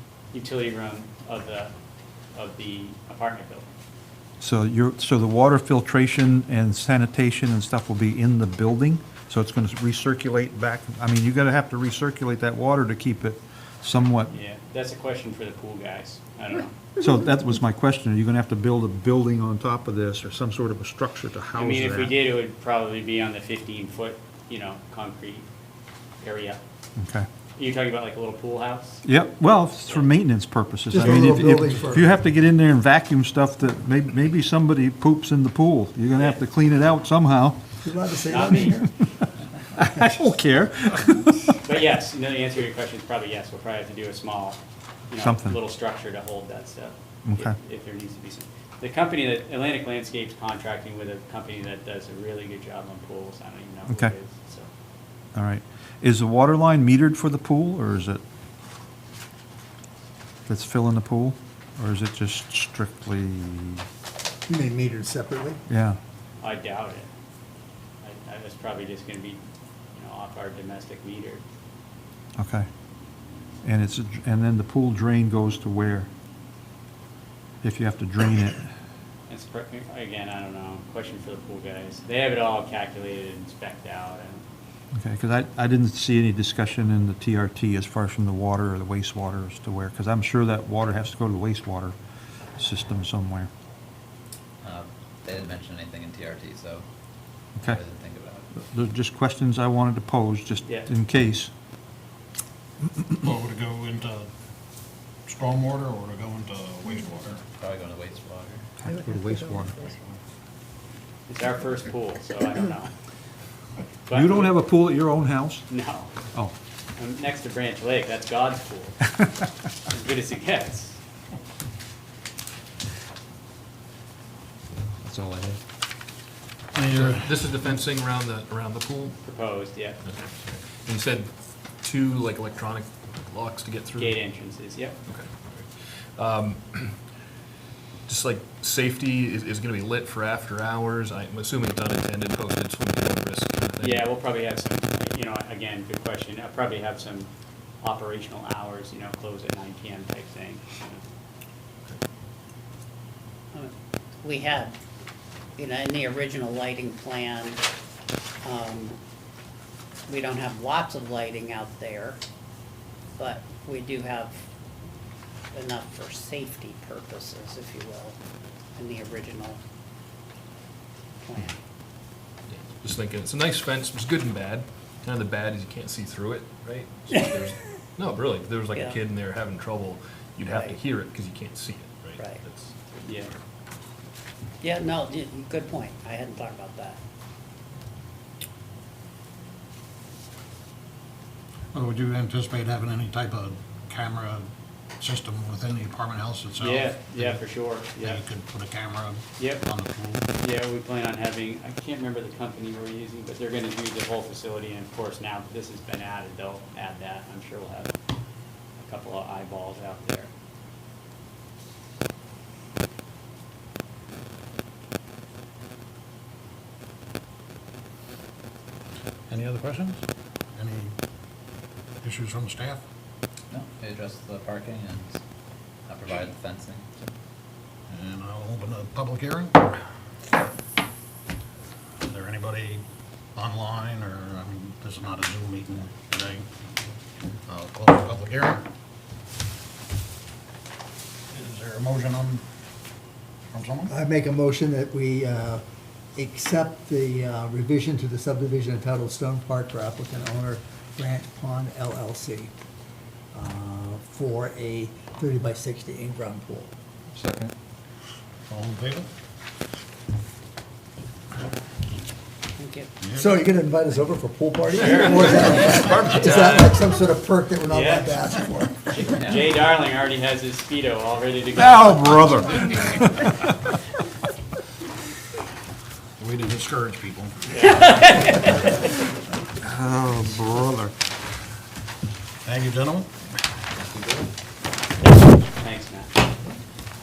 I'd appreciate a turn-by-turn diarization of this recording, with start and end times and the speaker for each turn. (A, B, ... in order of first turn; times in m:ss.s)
0:00.3-0:01.7 A
0:02.3-0:03.7 A
0:04.4-0:14.3 B
0:14.3-0:16.8 A
0:17.0-0:22.1 B
0:21.6-0:25.5 A
0:26.2-0:26.6 A
0:27.0-0:27.3 B
0:27.6-0:29.0 A
0:29.0-0:37.6 B
0:30.9-0:32.1 C
0:37.8-0:38.9 C
0:38.3-0:38.8 A
0:38.5-0:39.1 B
0:39.7-0:41.6 B
0:41.6-0:54.7 A
0:45.2-0:45.6 B
0:47.2-0:47.5 B
0:53.9-0:54.1 B
0:55.3-0:58.2 B
1:00.5-1:03.8 B
1:04.5-1:05.6 C
1:05.7-1:06.0 B
1:06.4-1:07.1 A
1:08.0-1:09.4 A
1:09.9-1:11.4 A
1:12.4-1:12.7 B
1:13.6-1:16.1 B
1:17.6-1:18.7 B
1:19.3-1:24.4 A
1:24.9-1:32.0 B
1:32.6-1:33.5 B
1:34.6-1:36.8 D
1:37.6-1:38.5 D
1:38.6-1:41.5 B
1:43.2-1:44.3 E
1:45.2-1:47.4 E
1:47.6-1:48.7 D
1:48.8-1:49.7 B
1:49.1-1:49.9 C
1:51.3-1:52.9 A
1:54.1-1:54.6 A
1:54.1-1:55.7 B
1:55.7-1:56.1 A
1:57.0-1:59.1 A
1:59.9-2:01.0 A
2:05.0-2:05.6 B
2:06.8-2:07.3 E
2:06.8-2:09.2 F
2:09.2-2:10.0 A
2:10.0-2:14.2 F
2:14.0-2:15.0 A
2:15.0-2:17.1 F
2:18.1-2:24.1 F
2:23.8-2:27.3 A
2:27.8-2:31.0 A
2:33.5-2:34.8 G
2:35.6-2:37.6 G
2:38.4-2:39.0 G
2:40.1-2:42.2 G
2:43.2-2:44.4 G
2:45.5-2:48.2 G
2:48.8-2:49.6 G
2:51.2-2:51.6 G
2:52.5-3:03.3 F
2:57.1-2:57.8 G
2:58.7-2:59.0 G
3:02.2-3:02.4 G
3:03.0-3:03.3 A
3:04.6-3:07.0 G
3:11.7-3:14.4 E
3:15.0-3:17.4 E
3:16.6-3:18.2 A
3:18.0-3:20.2 E
3:19.4-3:19.6 A
3:20.4-3:27.9 A
3:28.8-3:30.3 A
3:39.3-3:40.0 E
3:40.5-3:40.9 E
3:42.0-3:42.8 E
3:43.5-3:45.2 D
3:45.8-3:47.1 D
3:47.9-3:49.8 E
3:52.0-3:52.8 E
3:53.4-3:56.5 E
3:57.5-3:58.6 E
4:01.3-4:02.4 E
4:03.5-4:03.9 E
4:03.9-4:05.6 C
4:06.2-4:12.5 C
4:13.3-4:16.7 C
4:17.1-4:17.5 B
4:18.5-4:19.1 E
4:22.6-4:22.9 G
4:23.0-4:23.3 E
4:23.1-4:28.9 C
4:24.7-4:26.7 A
4:27.7-4:28.2 A
4:28.9-4:32.3 A
4:29.2-4:29.5 D
4:31.6-4:32.0 E
4:31.8-4:33.6 B
4:36.2-4:37.3 E
4:37.5-4:38.3 A
4:39.8-4:40.3 B
4:39.9-4:40.9 E
4:42.4-4:43.1 E
4:44.0-4:44.2 D
4:45.0-4:46.1 A